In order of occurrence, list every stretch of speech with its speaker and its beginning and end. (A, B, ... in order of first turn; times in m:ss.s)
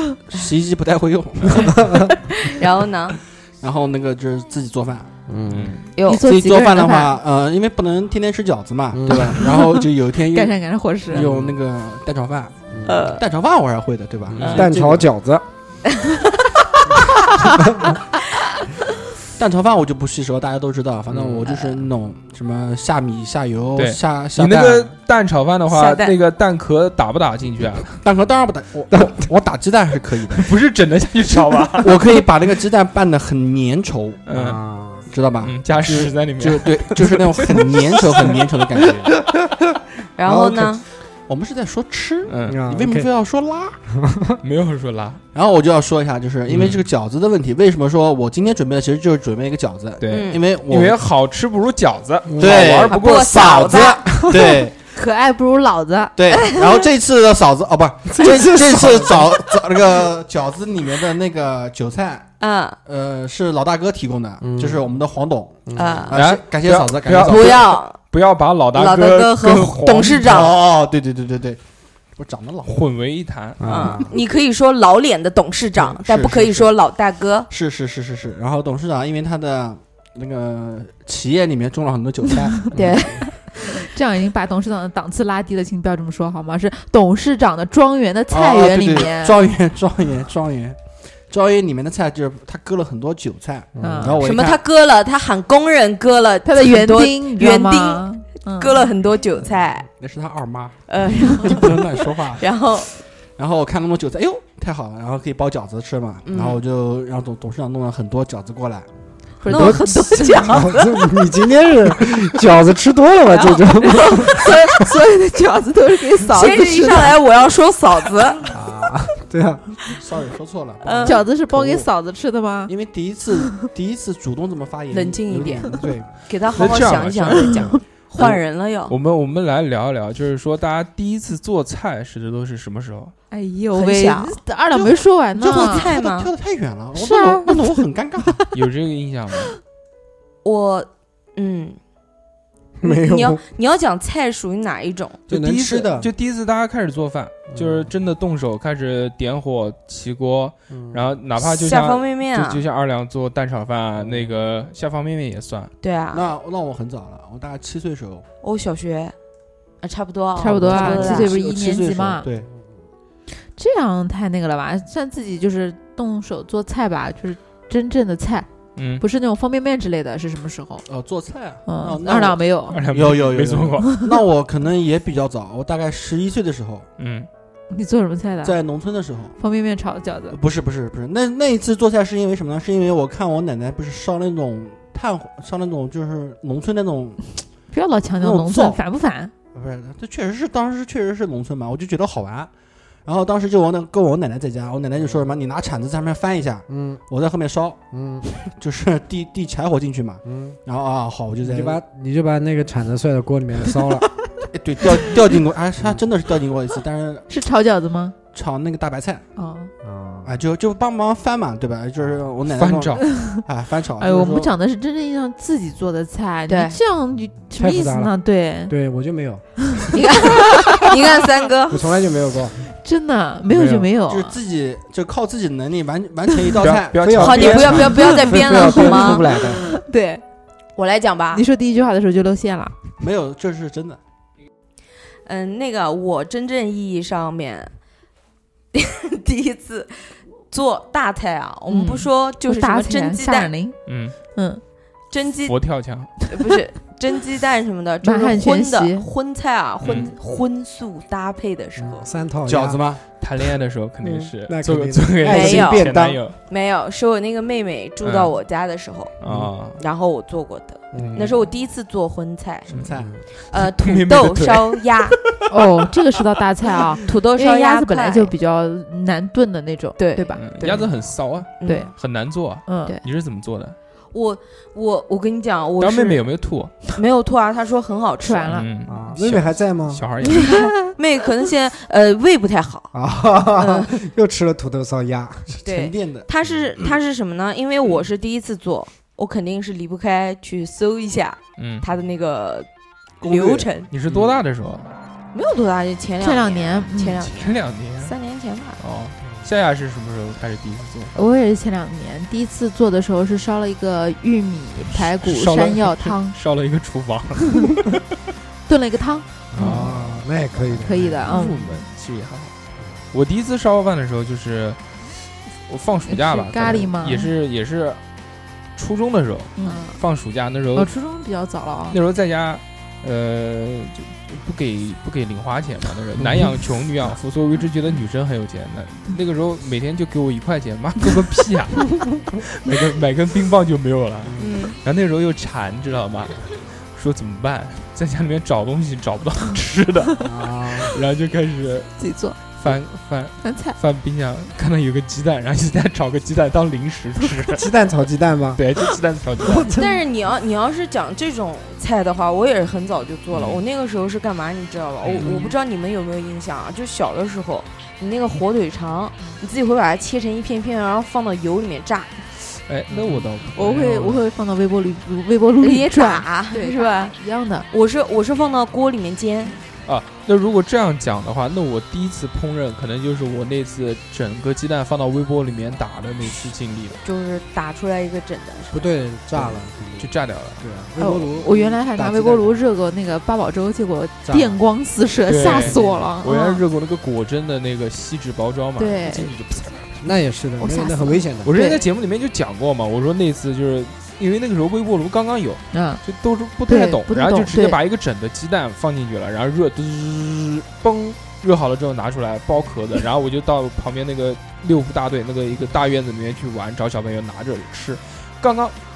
0:00.2-0:02.1 A
0:01.7-0:02.0 B
0:02.5-0:03.2 C
0:03.6-0:05.1 A
0:05.3-0:05.8 B
0:05.5-0:05.9 D
0:06.0-0:06.3 C
0:06.0-0:07.2 E
0:06.2-0:10.5 A
0:08.9-0:09.5 B
0:09.4-0:09.8 E
0:10.3-0:11.3 E
0:11.1-0:15.1 A
0:11.1-0:11.6 B
0:12.7-0:13.1 B
0:12.9-0:13.2 C
0:14.3-0:15.4 B
0:14.4-0:14.7 D
0:17.4-0:17.9 B
0:19.4-0:24.9 A
0:21.1-0:21.4 B
0:23.8-0:28.0 D
0:25.7-0:26.2 C
0:28.0-0:30.5 A
0:28.9-0:29.2 B
0:30.4-0:32.2 D
0:31.8-0:34.2 A
0:34.3-0:34.6 D
0:34.3-0:35.1 B
0:35.1-0:39.1 A
0:35.4-0:37.6 D
0:38.1-0:38.4 D
0:40.2-0:40.8 C
0:40.3-0:40.8 B
0:41.3-0:43.8 A
0:42.3-0:42.6 D
0:42.5-0:43.1 B
0:43.9-0:44.4 B
0:44.4-0:45.2 D
0:45.3-0:51.0 A
0:46.5-0:46.8 D
0:50.0-0:53.8 D
0:50.1-0:50.4 C
0:52.3-0:52.7 B
0:52.4-0:54.8 A
0:52.9-0:54.3 C
0:54.0-0:56.2 E
0:56.2-1:02.3 A
0:56.3-0:56.7 C
0:58.1-0:59.6 B
1:02.4-1:02.8 C
1:02.9-1:07.6 A
1:04.4-1:04.8 B
1:05.7-1:06.1 B
1:05.8-1:06.2 C
1:06.1-1:10.5 D
1:07.2-1:08.0 C
1:08.7-1:10.6 C
1:10.2-1:11.6 A
1:12.2-1:12.9 A
1:12.7-1:14.0 D
1:13.6-1:14.1 B
1:13.7-1:17.5 C
1:13.8-1:14.3 A
1:15.8-1:16.7 A
1:17.5-1:23.0 A
1:22.7-1:23.3 C
1:23.4-1:29.4 E
1:28.3-1:34.6 A
1:33.8-1:34.2 B
1:33.8-1:34.2 E
1:34.2-1:39.9 C
1:36.4-1:38.9 E
1:40.0-1:42.5 A
1:40.9-1:41.8 C
1:42.4-1:42.9 C
1:43.4-1:48.9 A
1:46.3-1:46.6 C
1:49.4-1:50.5 E
1:49.5-1:51.0 C
1:49.5-1:54.7 B
1:53.3-1:54.5 C
1:53.9-1:57.2 E
1:56.2-1:58.5 C
1:58.5-1:59.6 B
1:59.9-2:01.9 A
2:00.8-2:01.3 C
2:01.0-2:02.7 E
2:02.7-2:05.7 A
2:04.9-2:08.9 C
2:05.5-2:06.1 B
2:06.5-2:13.1 D
2:13.3-2:15.9 E
2:13.8-2:14.4 C
2:14.9-2:18.4 A
2:15.4-2:16.3 C
2:17.0-2:17.9 E
2:18.5-2:19.6 D
2:20.4-2:21.8 C
2:22.8-2:23.4 B
2:22.8-2:25.2 C
2:25.3-2:26.1 B
2:25.3-2:35.7 D
2:27.5-2:27.9 B
2:30.7-2:31.2 B
2:31.4-2:32.6 C
2:34.0-2:34.3 B
2:35.8-2:36.3 C
2:36.1-2:38.3 A
2:38.4-2:39.2 C
2:39.8-2:41.4 C
2:40.4-2:42.3 E
2:40.6-2:42.5 A
2:43.4-2:48.5 E
2:48.8-2:49.0 D
2:49.0-2:50.9 E
2:50.9-2:56.9 A
2:51.7-2:52.8 E
2:52.7-2:54.2 D
2:57.0-2:57.3 D
2:57.7-2:58.6 E
2:58.4-2:59.4 A
2:59.4-3:00.4 E
3:00.3-3:07.4 A
3:07.7-3:09.3 E
3:08.2-3:08.8 A
3:09.5-3:12.5 A
3:13.1-3:17.8 A
3:16.7-3:17.0 B
3:17.9-3:18.2 B
3:18.4-3:21.8 A
3:20.2-3:20.6 B
3:21.4-3:24.1 B
3:24.5-3:27.3 A
3:25.8-3:26.0 B
3:27.3-3:28.2 E
3:28.3-3:29.2 A
3:29.4-3:29.7 E
3:29.8-3:30.4 B
3:30.2-3:34.5 A
3:32.5-3:33.1 D
3:34.0-3:38.7 E
3:36.5-3:36.8 C
3:37.6-3:38.2 B
3:38.7-3:39.6 B
3:39.9-3:41.9 C
3:40.4-3:40.8 E
3:41.7-3:42.6 B
3:42.8-3:44.4 E
3:43.5-3:43.9 B
3:44.1-3:47.9 A
3:46.6-3:48.2 D
3:47.0-3:49.6 B
3:47.1-3:49.3 C
3:48.0-3:50.2 E
3:50.8-3:51.4 C
3:51.3-3:52.8 E
3:53.0-3:54.0 A
3:55.2-3:57.7 C
3:58.7-4:03.5 C
4:01.7-4:03.8 E
4:03.9-4:04.2 D
4:04.4-4:04.6 E
4:05.1-4:05.6 C
4:05.5-4:06.2 D
4:06.3-4:12.1 C
4:08.0-4:09.1 E
4:09.8-4:10.1 D
4:11.8-4:12.8 B
4:12.5-4:13.0 A
4:13.2-4:16.4 D
4:14.0-4:16.2 B
4:15.2-4:19.1 C
4:18.0-4:18.3 D
4:19.2-4:19.8 D
4:19.7-4:22.7 C
4:20.9-4:21.3 B
4:21.1-4:21.4 D
4:22.7-4:23.2 A
4:22.7-4:23.0 D
4:23.4-4:25.2 C
4:23.5-4:25.4 D
4:25.5-4:30.8 E
4:27.0-4:28.3 C
4:30.0-4:30.9 C
4:30.4-4:33.8 D
4:31.6-4:31.9 C
4:31.6-4:31.9 E
4:32.7-4:33.0 E
4:34.1-4:36.3 C
4:35.8-4:36.9 D
4:36.9-4:38.6 C
4:38.2-4:38.7 E
4:38.5-4:40.5 D
4:38.9-4:40.1 B
4:40.3-4:42.9 C
4:42.9-4:45.5 B
4:43.6-4:44.0 C
4:45.5-4:47.0 A
4:45.6-4:52.7 C
4:51.6-4:51.9 D
4:53.2-4:53.9 C
4:53.2-4:54.2 A
4:53.9-4:54.9 D
4:55.3-4:58.8 C
4:56.2-4:57.2 E
4:57.2-4:58.2 D
4:58.8-5:01.2 D
5:01.2-5:06.3 E
5:04.9-5:08.0 D
5:08.7-5:09.9 E
5:09.5-5:11.3 B
5:09.5-5:12.5 D
5:10.8-5:11.8 E
5:13.1-5:18.0 D
5:16.1-5:17.3 E
5:18.8-5:20.9 D
5:19.6-5:20.0 E
5:20.7-5:22.0 E
5:21.9-5:42.0 D
5:26.2-5:26.5 B
5:34.2-5:34.5 B
5:34.4-5:34.8 C
5:40.2-5:41.0 B
5:42.0-5:42.4 E
5:42.6-5:47.7 D
5:43.4-5:43.8 E
5:47.5-5:48.6 B
5:48.6-5:49.7 D
5:49.4-5:50.0 B
5:49.7-6:02.2 C
5:53.3-5:53.6 D
5:55.0-5:55.4 D
5:55.2-5:55.5 B
6:02.5-6:04.3 D
6:03.5-6:07.7 E
6:05.6-6:07.2 C
6:07.7-6:09.6 C
6:09.8-6:17.0 D
6:17.0-6:18.9 C
6:18.7-6:22.6 B
6:19.4-6:20.6 D
6:21.0-6:26.6 E
6:24.2-6:24.6 A
6:25.3-6:29.9 D
6:25.5-6:25.8 B
6:28.8-6:29.3 E
6:30.0-6:31.5 B
6:30.6-6:31.8 E
6:31.4-6:48.8 D
6:35.7-6:36.0 E
6:36.7-6:37.8 E